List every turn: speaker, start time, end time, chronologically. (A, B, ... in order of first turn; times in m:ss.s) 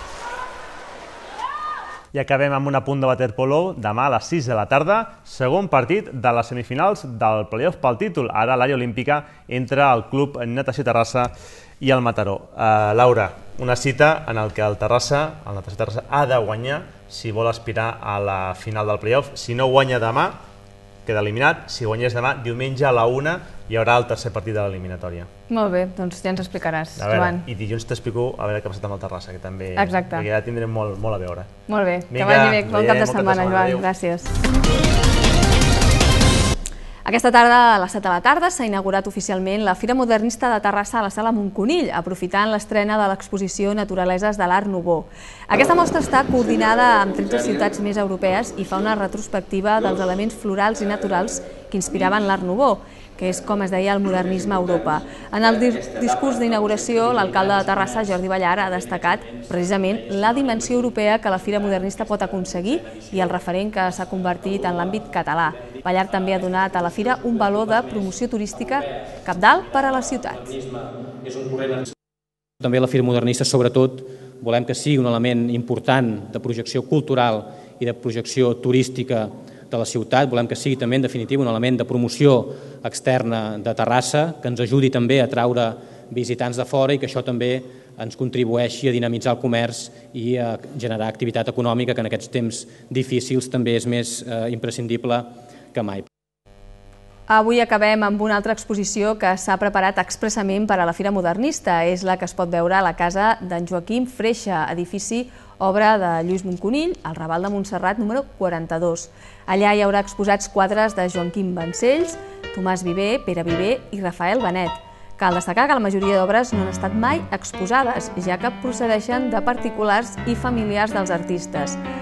0:02.1-0:20.4 A
0:21.1-0:25.3 A
0:25.5-0:27.4 B
0:27.0-0:31.5 A
0:29.8-0:30.2 B
0:31.7-0:34.3 B
0:32.1-0:33.9 A
0:37.1-1:10.6 B
1:11.3-1:11.5 C
1:12.6-1:36.1 C
1:37.3-2:01.8 B